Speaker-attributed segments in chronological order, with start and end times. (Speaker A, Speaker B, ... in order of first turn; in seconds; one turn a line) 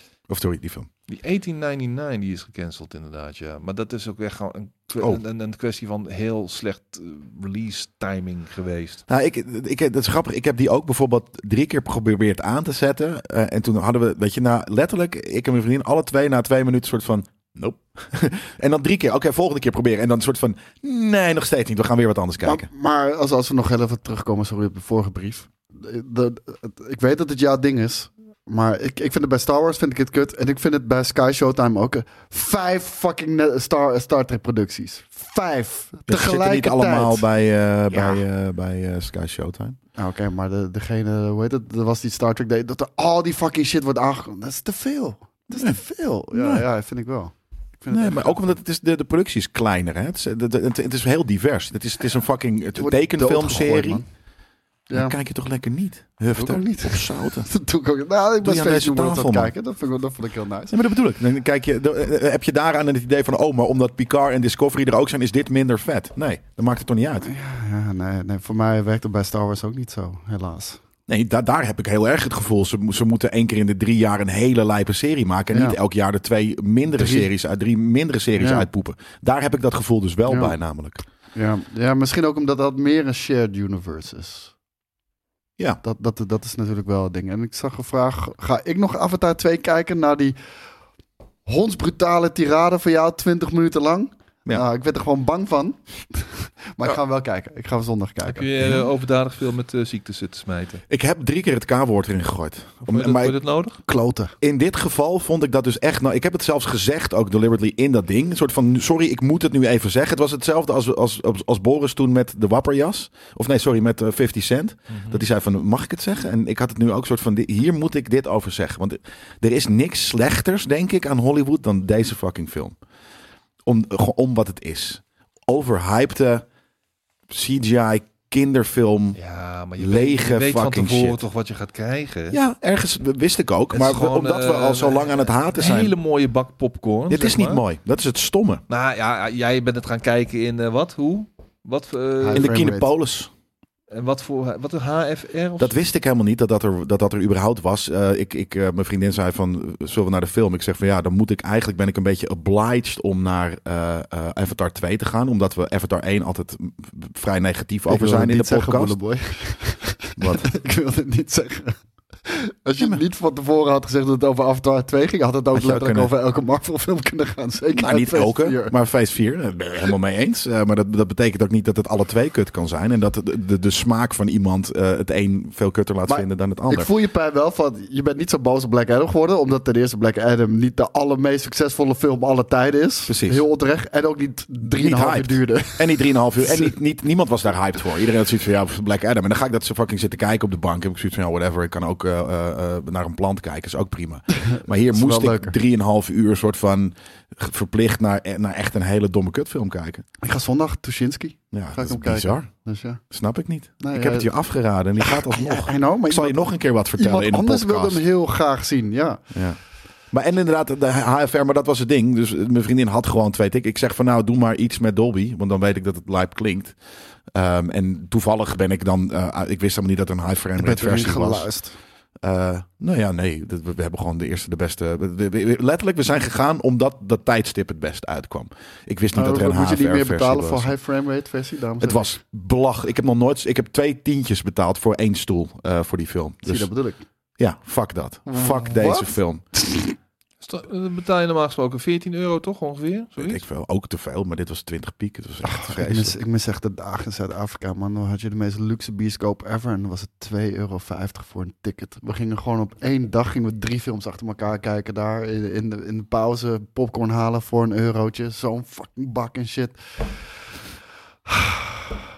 Speaker A: 0.3-0.9
Speaker B: 1.1-9.0
Speaker A: 9.1-22.7
Speaker C: 22.4-37.3
Speaker A: 36.1-39.8
Speaker C: 37.9-38.2
Speaker C: 40.0-48.4
Speaker A: 46.3-46.7
Speaker A: 47.9-54.0
Speaker C: 52.8-54.1
Speaker C: 54.9-55.2
Speaker A: 54.9-57.5
Speaker C: 56.3-60.8
Speaker A: 58.4-59.5
Speaker A: 60.7-67.3
Speaker C: 67.2-70.8
Speaker A: 71.1-81.0
Speaker C: 76.9-77.3
Speaker C: 78.4-78.7
Speaker C: 80.3-80.6
Speaker C: 81.3-84.5
Speaker C: 85.8-90.4
Speaker C: 91.5-98.5
Speaker B: 98.3-100.8
Speaker A: 100.9-103.3
Speaker B: 102.9-103.8
Speaker C: 103.9-104.3
Speaker A: 104.4-122.8
Speaker B: 114.9-115.2
Speaker A: 123.7-126.5
Speaker A: 127.3-129.2
Speaker B: 129.2-132.4
Speaker A: 129.8-131.3
Speaker A: 132.3-135.9
Speaker B: 133.7-137.6
Speaker A: 137.1-138.6
Speaker B: 138.7-142.6
Speaker C: 142.2-142.9
Speaker A: 142.3-143.3
Speaker B: 143.9-145.8
Speaker A: 145.6-159.0
Speaker C: 157.9-168.7
Speaker A: 160.2-160.5
Speaker A: 165.5-166.1
Speaker A: 167.8-176.9
Speaker C: 176.1-186.7
Speaker A: 183.1-183.4
Speaker A: 184.7-200.1
Speaker C: 194.3-195.5
Speaker C: 200.2-203.0
Speaker A: 201.5-202.5
Speaker A: 203.1-208.0
Speaker C: 203.8-204.3
Speaker C: 205.0-209.2
Speaker A: 209.3-209.6
Speaker A: 210.1-216.8
Speaker A: 217.3-221.5
Speaker C: 220.6-221.8
Speaker A: 222.2-230.7
Speaker C: 229.1-232.1
Speaker A: 231.8-236.7
Speaker C: 236.4-237.1
Speaker A: 237.4-239.4
Speaker C: 238.3-239.9
Speaker B: 240.4-243.4
Speaker A: 243.2-246.2
Speaker C: 245.4-259.8
Speaker C: 261.3-261.6